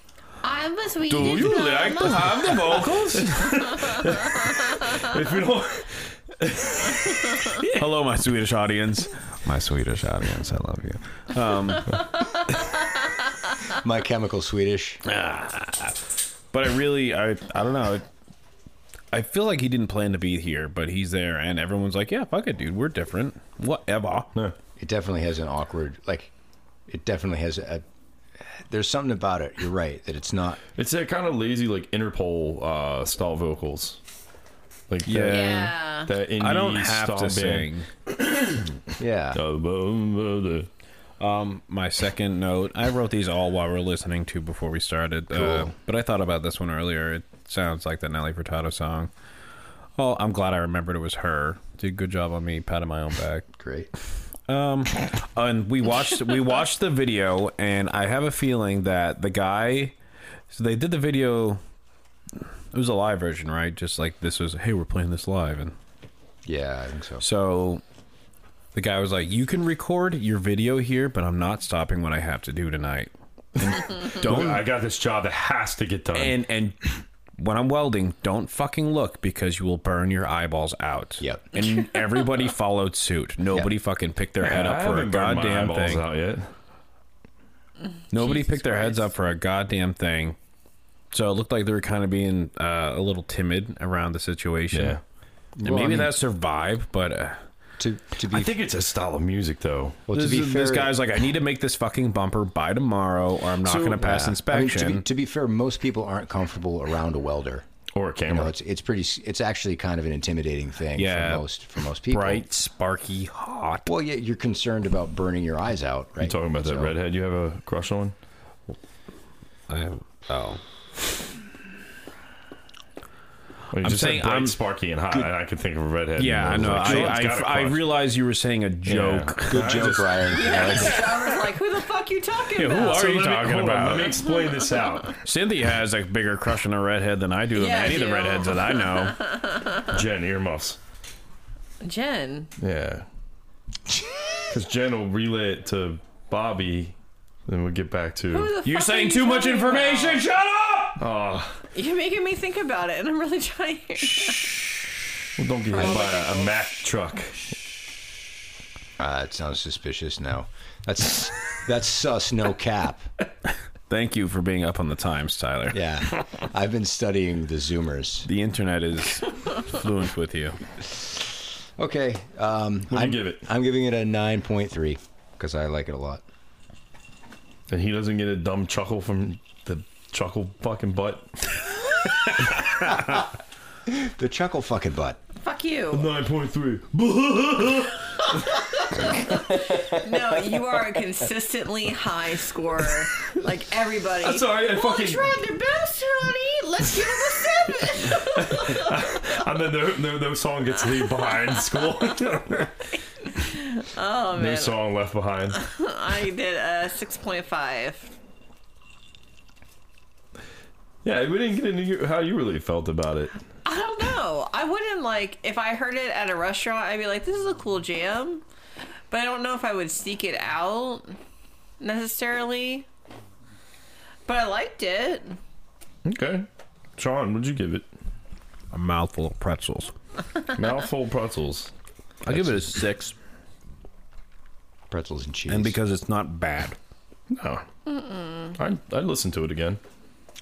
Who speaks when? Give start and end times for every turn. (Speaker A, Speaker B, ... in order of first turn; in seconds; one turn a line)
Speaker A: 0.4-4.5
Speaker B: 1.1-3.5
Speaker C: 2.7-7.5
Speaker B: 7.6-12.1
Speaker D: 13.7-15.0
Speaker B: 15.0-16.0
Speaker B: 16.5-18.1
Speaker B: 19.1-24.3
Speaker D: 24.8-26.3
Speaker D: 26.9-27.8
Speaker D: 28.4-30.6
Speaker C: 30.7-34.0
Speaker C: 34.9-37.7
Speaker B: 35.0-35.7
Speaker D: 35.1-35.4
Speaker A: 35.3-36.1
Speaker B: 36.3-37.9
Speaker D: 39.0-39.4
Speaker C: 39.3-40.7
Speaker B: 41.2-49.1
Speaker D: 45.3-45.7
Speaker B: 50.0-53.5
Speaker D: 53.6-53.9
Speaker B: 54.5-59.9
Speaker B: 60.5-61.6
Speaker B: 62.7-65.7
Speaker D: 66.5-67.2
Speaker B: 67.2-67.8
Speaker B: 68.7-74.6
Speaker C: 73.6-76.4
Speaker B: 76.1-86.1
Speaker D: 81.2-81.5
Speaker C: 84.4-86.5
Speaker B: 88.1-90.4
Speaker A: 88.3-88.9
Speaker B: 91.1-95.0
Speaker C: 94.7-95.0
Speaker D: 95.6-96.2
Speaker B: 95.6-97.4
Speaker D: 97.8-98.5
Speaker C: 98.3-100.0
Speaker D: 100.1-101.0
Speaker B: 100.1-105.0
Speaker C: 103.6-104.0
Speaker D: 104.0-107.6
Speaker C: 107.9-108.5
Speaker D: 108.3-112.5
Speaker B: 110.9-111.4
Speaker B: 112.1-113.9
Speaker D: 113.8-116.9
Speaker C: 116.2-118.1
Speaker B: 119.7-120.6
Speaker C: 123.7-127.9
Speaker B: 123.8-124.6
Speaker B: 126.2-129.8
Speaker C: 128.8-130.8
Speaker D: 129.5-131.0
Speaker A: 130.2-133.0
Speaker B: 132.5-134.2
Speaker C: 132.7-135.2
Speaker A: 134.1-135.0
Speaker B: 135.2-139.3
Speaker A: 137.5-139.8
Speaker C: 139.8-140.8
Speaker A: 141.8-142.5
Speaker C: 142.6-143.1
Speaker C: 144.5-148.5
Speaker A: 148.3-150.2
Speaker B: 148.6-151.0
Speaker C: 151.0-151.6
Speaker A: 151.7-154.6
Speaker C: 155.4-157.4
Speaker A: 155.7-156.6
Speaker D: 159.0-163.1
Speaker B: 163.9-165.8
Speaker D: 165.7-168.3
Speaker B: 168.2-170.6
Speaker D: 170.9-171.2
Speaker D: 171.8-176.2
Speaker C: 172.9-173.4
Speaker C: 177.7-181.3
Speaker D: 182.7-183.3
Speaker D: 183.9-185.2
Speaker A: 185.4-186.1
Speaker C: 185.9-188.1
Speaker A: 188.2-198.9
Speaker C: 194.2-195.4
Speaker C: 198.0-202.9
Speaker A: 201.2-201.9
Speaker A: 203.3-204.8
Speaker C: 204.3-205.6
Speaker A: 205.5-208.1
Speaker C: 211.0-213.4
Speaker A: 213.7-218.4
Speaker A: 219.1-221.2
Speaker A: 221.8-222.8
Speaker A: 224.2-225.4
Speaker C: 226.1-226.4
Speaker C: 227.0-227.9
Speaker B: 228.7-229.9
Speaker C: 230.5-231.7
Speaker B: 232.2-233.1
Speaker D: 232.3-232.6
Speaker D: 234.9-235.8
Speaker B: 235.5-236.8
Speaker C: 237.3-237.6
Speaker C: 238.5-239.8